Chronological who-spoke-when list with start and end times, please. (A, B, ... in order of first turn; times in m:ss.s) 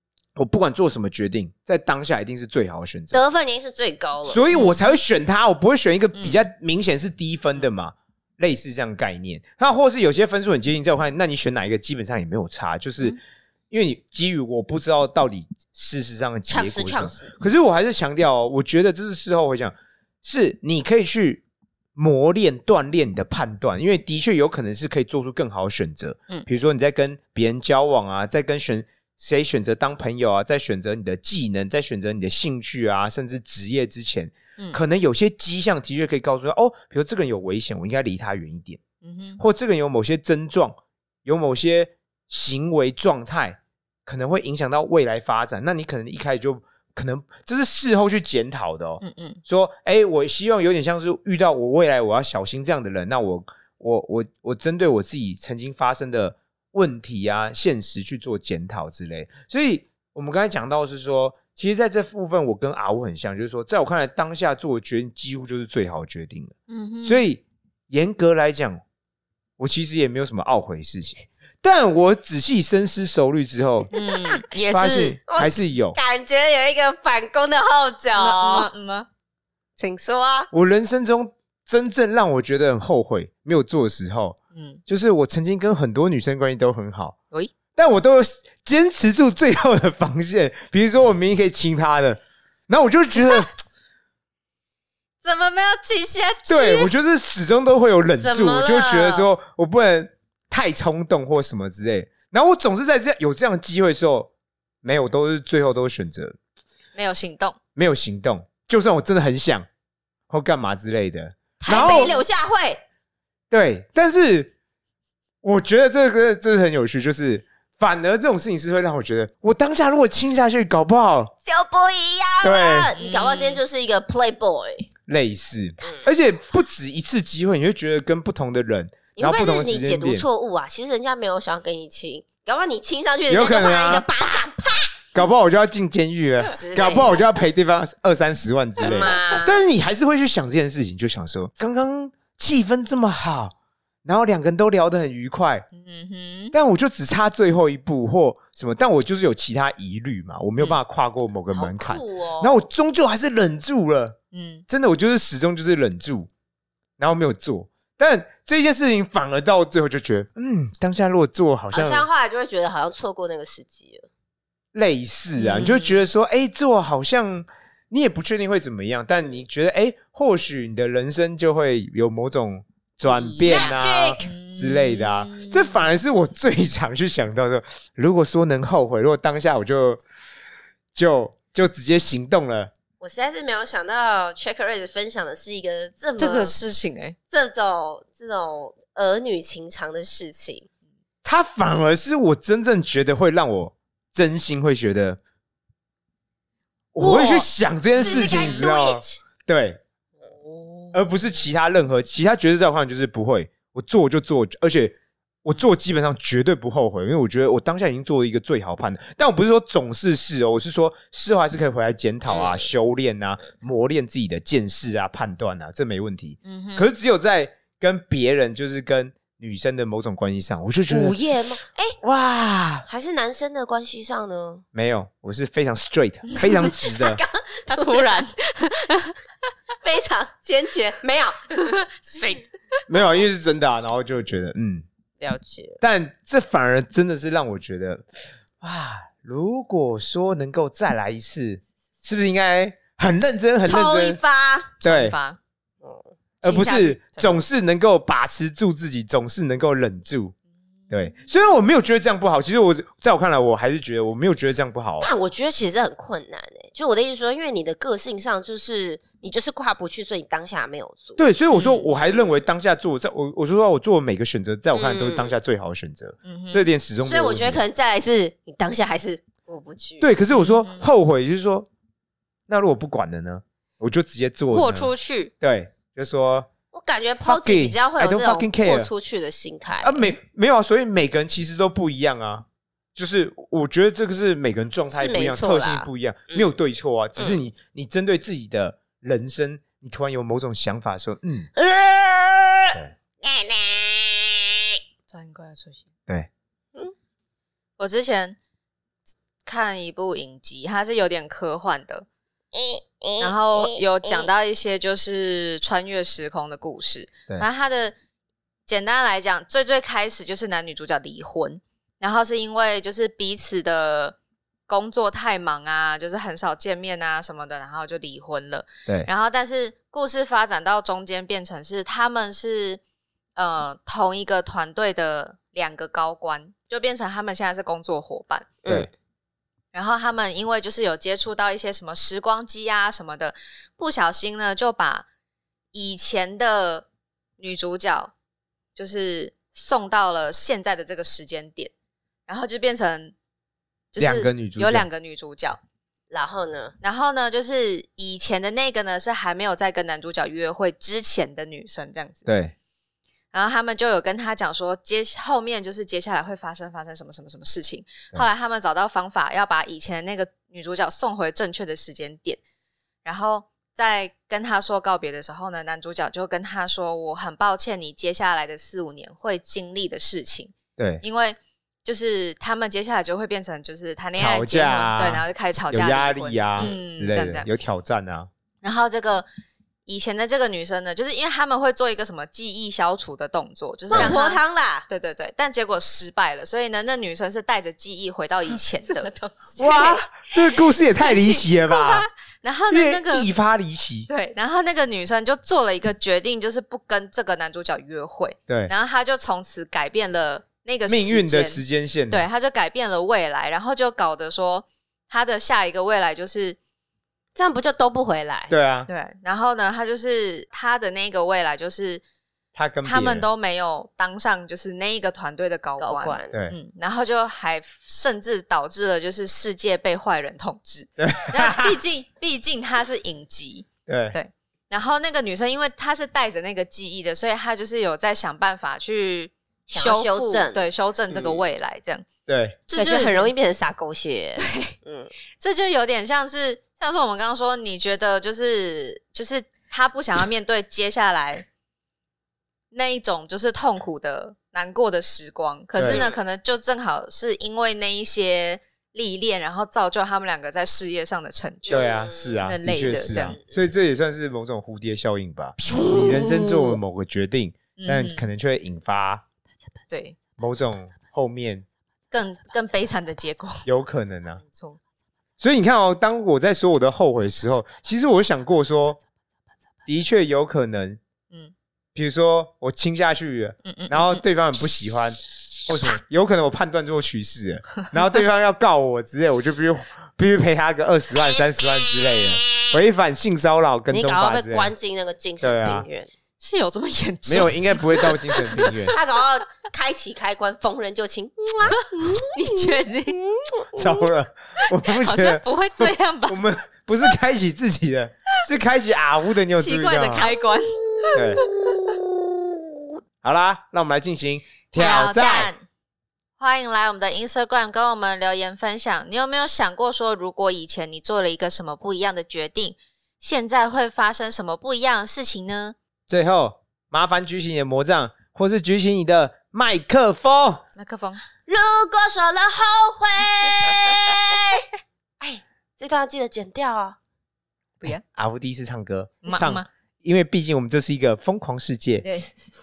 0:00.4-0:03.2 A
0:03.1-0:04.4 B
0:04.2-0:13.2 A
0:06.2-0:06.4 C
0:13.7-0:21.4 A
0:16.5-0:17.3 B
0:22.0-0:38.8 A
0:39.0-0:39.4 C
0:39.4-1:08.8 A
0:49.0-0:49.4 C
1:06.7-1:07.2 C
1:09.6-1:13.9 A
1:13.9-1:15.2 C
1:14.7-1:16.0 A
1:15.3-1:18.7 B
1:18.2-1:19.1 C
1:19.8-1:20.5 B
1:20.5-1:27.2 A
1:24.5-1:24.8 C
1:27.8-1:33.5 A
1:35.2-1:36.9 C
1:36.5-1:44.3 A
1:38.2-1:39.3 B
1:44.8-1:46.4 A
1:47.0-1:47.6 C
1:47.8-1:49.7 A
1:50.3-1:52.2 A
1:51.6-1:52.8 B
1:51.7-1:52.2 C
1:53.5-1:54.5 A
1:55.4-2:01.3 A
2:01.4-2:04.9 B
2:02.4-2:02.9 A
2:03.0-2:03.6 C
2:05.1-2:10.3 A
2:05.8-2:06.1 B
2:09.2-2:14.9 B
2:13.3-2:14.1 A
2:15.1-2:25.7 A
2:16.5-2:17.2 B
2:18.8-2:19.6 B
2:25.7-2:26.5 C
2:26.5-2:34.2 A
2:31.5-2:32.6 B
2:34.3-2:34.6 C
2:34.7-2:36.3 A
2:37.0-2:42.1 A
2:41.7-2:44.1 B
2:44.7-3:00.0 A
2:45.4-2:46.0 C
2:53.0-2:55.9 C
2:53.4-2:54.2 B
3:01.0-3:02.7 A
3:03.0-3:06.5 B
3:06.2-3:07.2 C
3:07.3-3:10.7 B
3:11.2-3:15.2 A
3:16.9-3:19.8 A
3:17.0-3:18.7 C
3:17.9-3:19.2 B
3:20.5-3:20.9 C
3:20.9-3:41.2 A
3:32.3-3:32.6 B
3:36.4-3:36.9 C
3:40.9-3:42.0 B
3:42.0-3:42.9 A
3:42.9-3:44.6 B
3:44.7-3:47.2 A
3:46.4-3:46.7 C
3:46.8-3:48.3 B
3:47.7-3:49.2 C
3:49.8-3:51.8 B
3:51.6-3:52.5 C
3:52.9-3:54.8 A
3:55.2-3:55.8 B
3:55.8-3:58.1 A
3:58.6-4:04.2 A
4:03.6-4:04.8 B
4:04.8-4:05.2 A
4:04.8-4:05.4 C
4:06.4-4:10.4 A
4:06.4-4:07.4 C
4:10.9-4:15.1 A
4:15.0-4:21.2 B
4:21.2-4:27.6 A
4:24.7-4:25.4 B
4:26.2-4:26.7 C
4:27.0-4:30.1 B
4:30.0-4:31.7 A
4:30.3-4:30.9 C
4:32.5-4:36.5 A
4:34.5-4:35.3 C
4:36.7-4:40.1 B
4:37.2-4:38.9 A
4:39.8-4:51.5 A
4:44.9-4:46.5 B
4:51.6-4:54.5 B
4:55.1-4:55.9 C
4:57.8-4:58.4 C
4:59.4-5:02.1 C
5:02.5-5:04.3 B
5:03.2-5:08.0 C
5:08.7-5:14.2 C
5:14.7-5:22.8 C
5:23.4-5:28.5 C
5:28.6-5:28.9 B
5:29.7-5:35.1 C
5:35.7-5:36.9 C
5:37.4-5:38.1 C
5:38.8-5:41.7 C
5:42.3-5:43.1 C
5:43.9-5:45.6 C
5:44.0-5:44.9 A
5:46.1-5:46.8 B
5:46.8-5:52.2 C
5:52.3-5:52.5 A
5:53.3-6:02.4 C
6:03.0-6:17.5 C
6:10.8-6:11.0 A
6:14.2-6:18.3 A
6:18.6-6:19.3 C
6:19.9-6:30.2 C
6:23.9-6:24.9 B
6:23.9-6:24.2 A
6:28.5-6:30.0 B
6:29.6-6:32.1 A
6:31.0-6:33.3 C
6:32.7-6:34.1 A
6:34.1-6:46.6 C
6:40.9-6:42.3 A
6:47.4-6:48.5 B
6:48.5-6:48.9 A
6:48.9-6:52.0 C
6:52.6-6:53.3 A
6:52.8-7:12.1 C
6:55.8-6:56.3 B
7:01.0-7:01.7 A
7:03.9-7:04.2 A
7:09.7-7:11.5 B
7:12.3-7:12.6 A
7:12.7-7:13.3 C
7:12.8-7:15.1 B
7:14.4-7:14.8 C
7:15.4-7:21.5 C
7:22.7-7:33.4 C
7:25.8-7:26.0 A
7:25.9-7:26.2 B
7:31.7-7:39.2 A
7:31.7-7:32.4 B
7:35.6-7:36.8 B
7:37.8-7:38.3 C
7:39.9-7:40.2 C
7:40.4-7:41.7 A
7:42.1-7:43.7 C
7:43.7-7:44.4 A
7:44.4-7:44.8 C
7:45.4-7:49.0 A
7:49.9-7:51.0 A
7:52.0-8:04.7 A
7:53.7-7:54.2 C
8:03.9-8:06.1 B
8:05.4-8:05.9 A
8:06.4-8:09.0 C
8:07.3-8:09.0 A
8:08.9-8:13.8 B
8:11.7-8:13.2 C
8:13.7-8:20.3 A
8:14.7-8:16.4 C
8:19.5-8:22.0 C
8:21.0-8:22.3 B
8:21.1-8:21.4 A
8:23.2-8:25.5 A
8:24.8-8:25.6 C
8:26.4-8:35.8 C
8:36.1-8:40.6 A
8:40.8-8:41.2 C
8:41.5-8:44.7 B
8:45.2-8:47.0 B
8:48.2-8:52.0 A
8:49.2-8:49.7 C
8:52.0-8:52.3 C